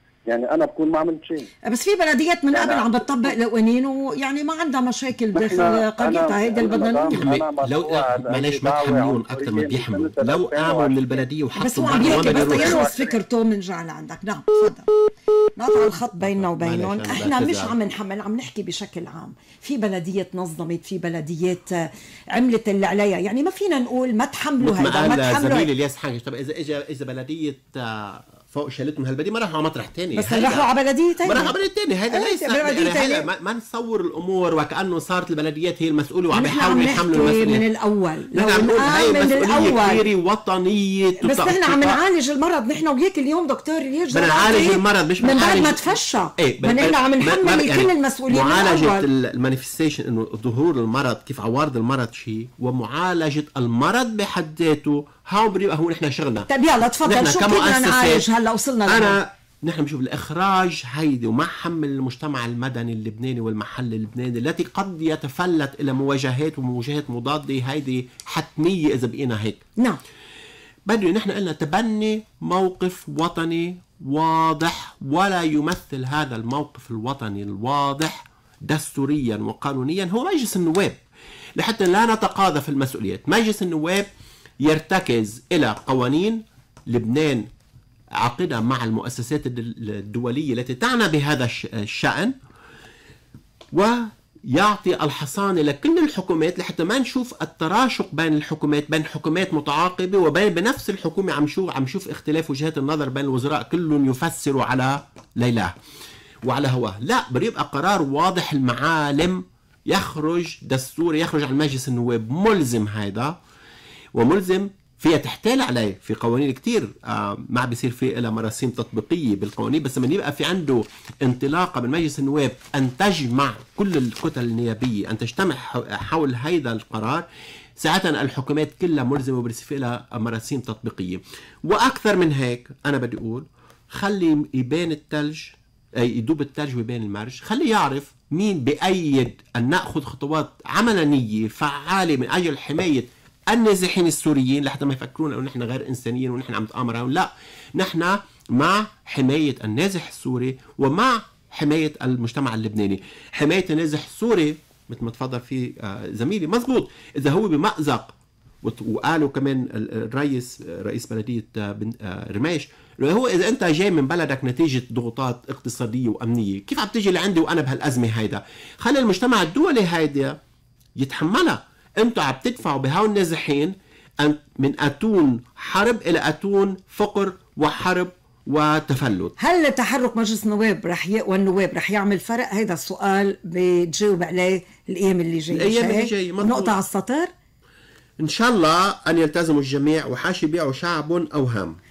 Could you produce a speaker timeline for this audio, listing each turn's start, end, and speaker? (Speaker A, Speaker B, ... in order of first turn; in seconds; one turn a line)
Speaker A: 0.3-1.5
Speaker B: 1.6-7.4
Speaker A: 2.5-3.3
Speaker A: 5.3-13.2
Speaker C: 7.1-12.9
Speaker B: 11.6-14.9
Speaker B: 15.6-25.7
Speaker C: 16.2-17.8
Speaker C: 24.6-30.7
Speaker B: 30.1-31.6
Speaker C: 31.2-37.6
Speaker B: 32.1-33.3
Speaker B: 36.3-40.0
Speaker C: 38.3-42.0
Speaker B: 41.2-49.1
Speaker C: 44.1-45.9
Speaker C: 46.4-56.5
Speaker B: 56.5-59.2
Speaker C: 57.0-58.2
Speaker C: 58.9-69.6
Speaker C: 70.9-81.0
Speaker C: 81.6-84.1
Speaker C: 84.6-87.5
Speaker C: 88.2-92.3
Speaker C: 93.7-105.7
Speaker C: 106.5-113.4
Speaker C: 114.2-127.2
Speaker C: 127.8-170.4
Speaker C: 171.0-179.3
Speaker B: 179.4-187.3
Speaker C: 185.5-186.8
Speaker C: 188.2-191.8